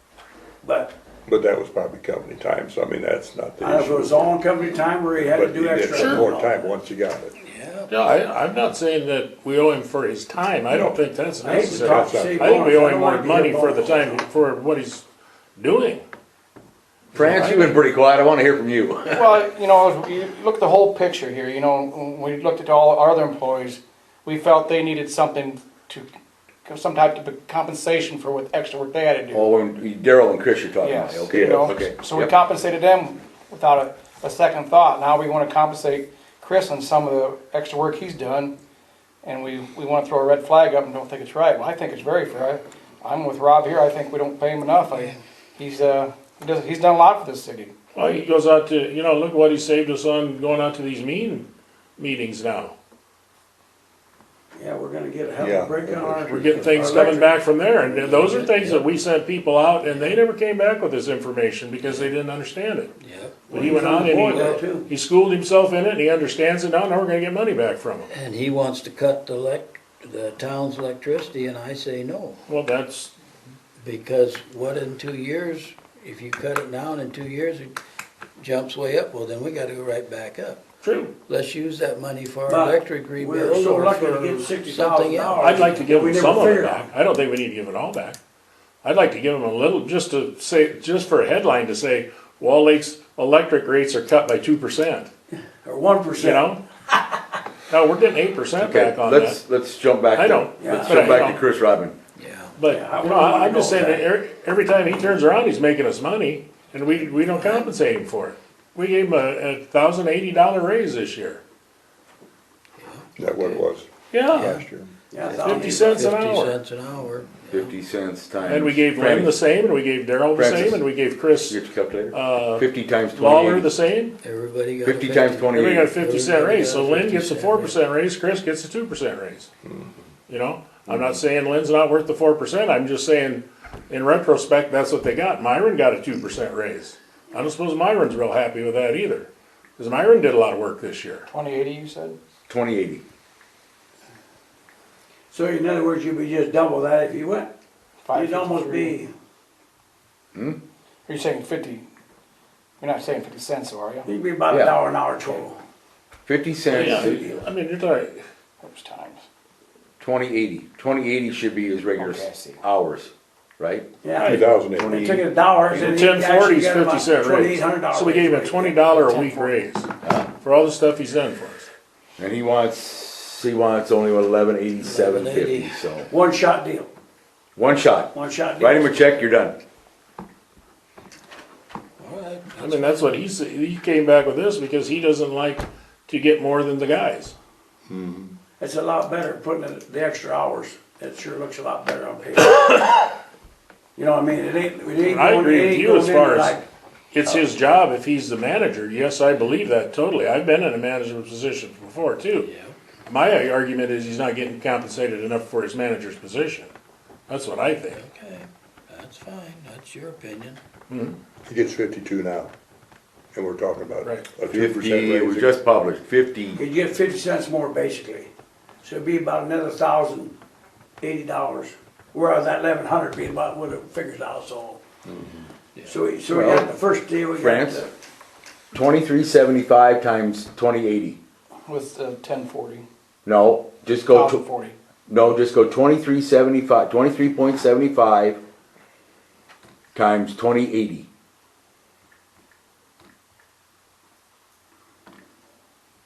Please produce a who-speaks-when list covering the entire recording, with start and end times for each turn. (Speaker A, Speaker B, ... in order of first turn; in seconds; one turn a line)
Speaker A: 0.6-0.9
Speaker B: 1.3-4.3
Speaker A: 3.6-6.7
Speaker B: 5.3-7.3
Speaker C: 7.4-7.9
Speaker D: 7.9-15.0
Speaker B: 10.7-12.7
Speaker A: 11.4-14.2
Speaker D: 15.6-16.0
Speaker E: 17.1-19.4
Speaker D: 17.2-17.5
Speaker F: 19.1-26.1
Speaker F: 26.6-29.5
Speaker E: 29.3-32.4
Speaker F: 30.8-38.5
Speaker F: 39.2-48.0
Speaker D: 48.0-52.8
Speaker A: 54.5-57.3
Speaker B: 55.4-56.6
Speaker D: 56.3-62.9
Speaker C: 56.3-57.2
Speaker C: 57.8-58.8
Speaker C: 59.9-60.2
Speaker C: 61.8-62.1
Speaker C: 63.0-64.6
Speaker A: 63.5-64.9
Speaker D: 63.5-68.1
Speaker C: 68.1-72.4
Speaker D: 72.5-73.1
Speaker C: 73.8-77.8
Speaker C: 78.4-80.6
Speaker D: 80.8-81.1
Speaker C: 81.3-86.1
Speaker A: 82.5-86.9
Speaker D: 85.4-88.2
Speaker D: 88.8-95.1
Speaker A: 95.6-96.5
Speaker D: 96.2-96.6
Speaker D: 97.7-99.4
Speaker E: 98.6-102.0
Speaker D: 100.1-101.4
Speaker A: 100.6-101.3
Speaker C: 102.2-102.5
Speaker D: 102.5-111.4
Speaker A: 102.6-104.0
Speaker C: 107.3-107.7
Speaker C: 112.8-113.6
Speaker B: 113.2-114.9
Speaker D: 114.1-114.6
Speaker C: 114.3-114.6
Speaker A: 115.1-116.1
Speaker C: 115.2-117.8
Speaker D: 115.4-116.6
Speaker E: 117.5-119.3
Speaker D: 118.4-121.6
Speaker E: 120.3-120.8
Speaker E: 121.5-123.7
Speaker D: 122.1-124.2
Speaker C: 124.2-127.8
Speaker E: 124.8-125.9
Speaker D: 125.5-129.5
Speaker D: 130.3-141.3
Speaker F: 141.3-142.2
Speaker E: 142.5-143.0
Speaker A: 145.3-147.5
Speaker F: 148.1-149.0
Speaker A: 148.1-149.1
Speaker E: 150.3-150.6
Speaker F: 151.1-151.8
Speaker F: 152.8-154.1
Speaker A: 154.0-155.6
Speaker E: 154.5-154.8
Speaker E: 156.2-157.2
Speaker A: 156.7-157.4
Speaker D: 156.8-158.2
Speaker F: 158.6-159.2
Speaker E: 160.0-165.2
Speaker F: 161.9-162.6
Speaker A: 164.0-169.2
Speaker B: 164.2-164.9
Speaker D: 165.7-171.7
Speaker F: 169.0-169.4
Speaker E: 170.0-170.3
Speaker E: 172.2-176.1
Speaker C: 174.8-176.0
Speaker A: 176.1-176.9
Speaker E: 177.6-179.6
Speaker A: 178.1-179.1
Speaker C: 182.0-183.0
Speaker D: 182.6-187.3
Speaker B: 187.9-188.3
Speaker A: 188.6-192.6
Speaker D: 192.4-193.1
Speaker A: 193.9-196.6
Speaker D: 195.0-196.6
Speaker D: 197.1-202.5
Speaker C: 202.3-202.8
Speaker D: 203.1-206.7
Speaker D: 207.3-208.0
Speaker C: 207.9-210.6
Speaker D: 210.9-211.2
Speaker B: 211.4-212.5
Speaker B: 213.3-215.6
Speaker E: 214.5-216.6
Speaker A: 216.5-218.3
Speaker A: 218.8-220.3
Speaker A: 221.0-224.8
Speaker A: 225.8-227.9
Speaker E: 226.3-226.7
Speaker E: 227.3-227.8
Speaker E: 228.7-231.2
Speaker F: 231.7-232.9
Speaker E: 233.2-234.4
Speaker F: 234.1-234.8
Speaker E: 235.1-238.4
Speaker E: 239.9-241.1